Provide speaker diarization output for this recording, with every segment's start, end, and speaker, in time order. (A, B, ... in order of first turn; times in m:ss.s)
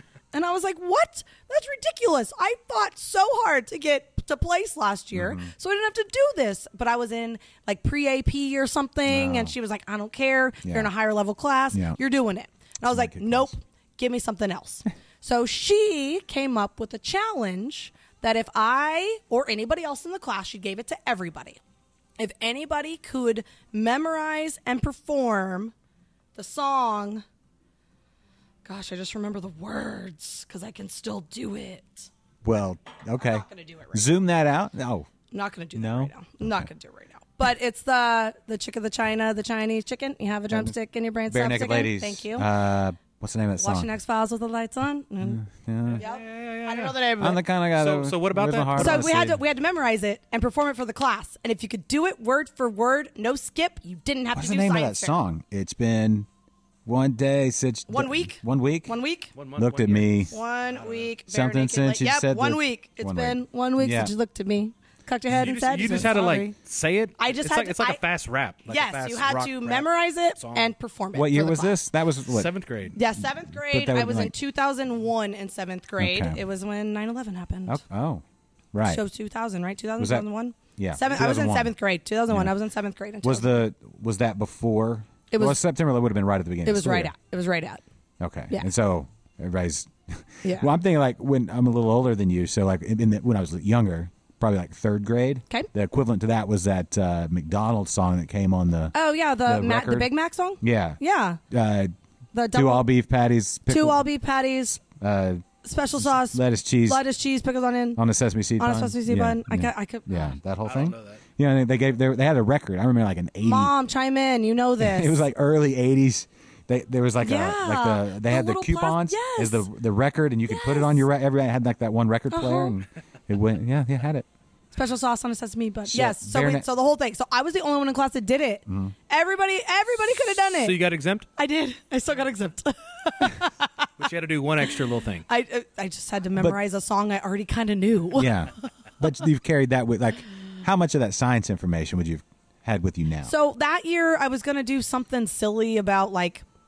0:00.3-0:21.6 A
0:05.1-0:05.5 B
0:09.1-0:09.5 B
0:10.6-0:10.9 B
0:11.7-0:12.0 B
0:12.9-0:13.5 B
0:22.2-0:25.7 A
0:26.3-0:27.2 A
0:28.6-0:32.1 A
0:32.4-0:35.1 B
0:33.2-0:34.2 A
0:35.3-0:42.5 A
0:35.7-0:36.7 B
0:40.5-0:40.7 B
0:41.3-0:43.9 B
0:43.6-0:45.4 A
0:45.2-0:46.0 B
0:45.9-0:47.1 C
0:46.0-0:47.4 A
0:47.2-0:49.4 B
0:47.7-0:49.3 C
0:48.7-0:55.2 A
0:54.3-0:56.3 B
0:56.8-0:59.0 B
0:57.9-0:59.3 A
0:59.4-1:01.1 C
0:59.6-1:00.3 B
1:00.3-1:06.5 A
1:01.3-1:04.1 B
1:05.3-1:10.7 C
1:07.2-1:08.0 A
1:08.7-1:11.8 A
1:11.1-1:12.5 B
1:12.3-1:12.9 C
1:12.9-1:17.8 A
1:13.2-1:14.3 B
1:16.0-1:16.4 B
1:17.6-1:19.0 B
1:18.8-1:23.6 A
1:20.0-1:21.7 B
1:22.3-1:22.5 B
1:23.2-1:27.1 B
1:25.3-1:25.6 A
1:26.6-1:27.8 A
1:28.2-1:41.0 B
1:30.4-1:30.7 A
1:38.9-1:41.4 A
1:41.5-1:41.9 B
1:42.3-1:42.9 A
1:42.5-1:44.0 B
1:43.7-1:44.8 A
1:44.9-1:45.4 B
1:45.6-1:48.0 A
1:46.0-1:47.0 B
1:48.0-1:53.7 B
1:48.6-1:50.4 A
1:50.6-1:51.2 C
1:53.4-1:55.2 A
1:54.8-2:04.3 B
1:57.2-1:59.7 A
2:00.5-2:01.0 A
2:02.3-2:02.8 A
2:04.7-2:13.9 A
2:05.9-2:06.7 B
2:08.7-2:08.9 B
2:10.5-2:11.3 C
2:14.0-2:15.3 C
2:15.3-2:18.4 A
2:18.1-2:23.3 B
2:23.2-2:26.4 A